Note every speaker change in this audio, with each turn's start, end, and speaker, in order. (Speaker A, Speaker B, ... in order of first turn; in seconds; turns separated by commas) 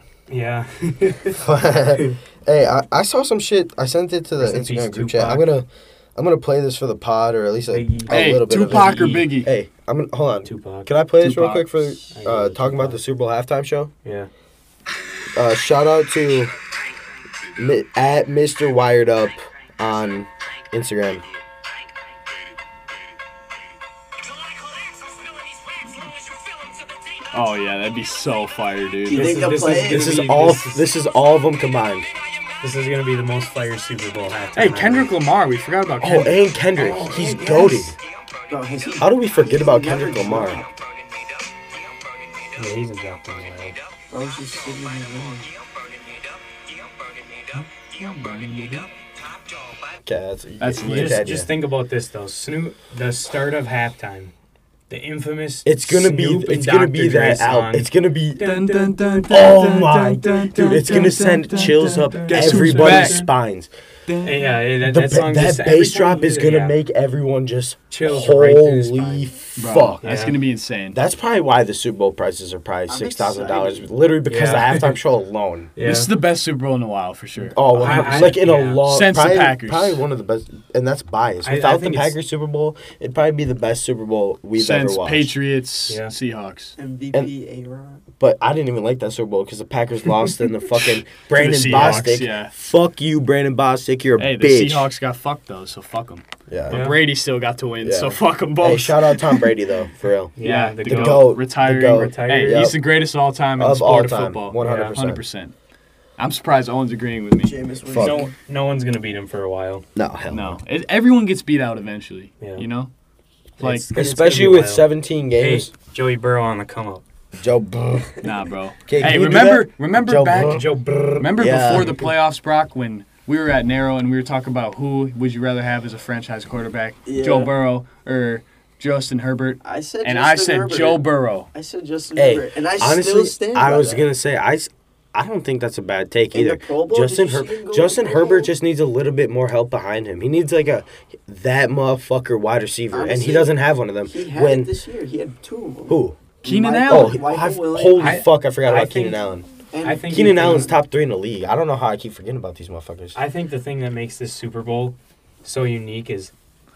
Speaker A: 0.3-1.4, Speaker B: 1.3-13.9, Speaker A: 4.4-5.4, Speaker A: 7.7-9.3, Speaker C: 8.1-9.5, Speaker A: 10.4-13.0, Speaker A: 14.0-14.3, Speaker B: 15.3-16.6, Speaker B: 17.6-21.2, Speaker C: 27.3-29.4, Speaker D: 29.1-30.2, Speaker A: 29.1-30.9, Speaker B: 29.7-32.1, Speaker A: 32.6-35.1, Speaker C: 34.5-36.4, Speaker B: 36.0-38.0, Speaker A: 36.8-37.8, Speaker D: 37.0-37.9, Speaker D: 38.5-40.7, Speaker B: 39.0-40.6, Speaker A: 42.6-43.8, Speaker D: 44.1-45.5, Speaker C: 47.9-48.9, Speaker B: 50.0-51.5, Speaker C: 50.6-51.3, Speaker A: 50.8-54.3, Speaker A: 54.9-57.9, Speaker B: 55.6-58.5, Speaker C: 58.4-63.3, Speaker A: 58.4-59.8, Speaker B: 59.3-63.7, Speaker A: 60.7-63.3, Speaker C: 64.1-64.6, Speaker A: 64.2-66.8, Speaker B: 64.8-70.0, Speaker A: 67.9-69.2, Speaker C: 69.6-71.0, Speaker A: 70.0-70.4, Speaker B: 70.9-75.7, Speaker D: 72.9-73.9, Speaker A: 74.3-75.0, Speaker A: 75.8-76.1, Speaker C: 75.8-80.0, Speaker B: 77.4-85.3, Speaker A: 77.8-78.8, Speaker A: 81.4-82.1, Speaker C: 84.6-86.7, Speaker A: 85.9-86.1, Speaker D: 86.8-88.0, Speaker B: 88.2-94.9, Speaker C: 91.3-92.5, Speaker A: 91.5-92.1, Speaker C: 94.2-99.5, Speaker B: 96.5-96.8, Speaker A: 96.7-97.0, Speaker B: 97.8-100.3, Speaker A: 100.3-102.7, Speaker C: 100.4-105.5, Speaker B: 100.8-102.8, Speaker B: 103.6-105.2, Speaker A: 104.6-104.9, Speaker C: 106.2-107.5, Speaker D: 107.4-108.3, Speaker B: 107.9-108.2, Speaker A: 107.9-109.8, Speaker B: 110.0-110.6, Speaker C: 110.3-112.9, Speaker A: 112.4-112.6, Speaker A: 113.6-114.8, Speaker C: 113.6-113.9, Speaker B: 113.9-115.7, Speaker A: 115.4-117.0, Speaker B: 117.3-118.2, Speaker C: 118.2-120.6, Speaker B: 118.8-120.7, Speaker A: 120.3-122.1, Speaker C: 121.2-131.5, Speaker B: 121.3-122.0, Speaker D: 127.0-127.5, Speaker D: 129.6-134.1, Speaker B: 132.2-144.7, Speaker D: 136.3-138.5, Speaker D: 142.9-148.2, Speaker B: 145.9-146.2, Speaker C: 146.4-147.2, Speaker B: 146.9-149.5, Speaker A: 147.9-149.2, Speaker D: 149.7-150.7, Speaker A: 149.8-150.7, Speaker B: 150.1-153.2, Speaker A: 153.1-156.3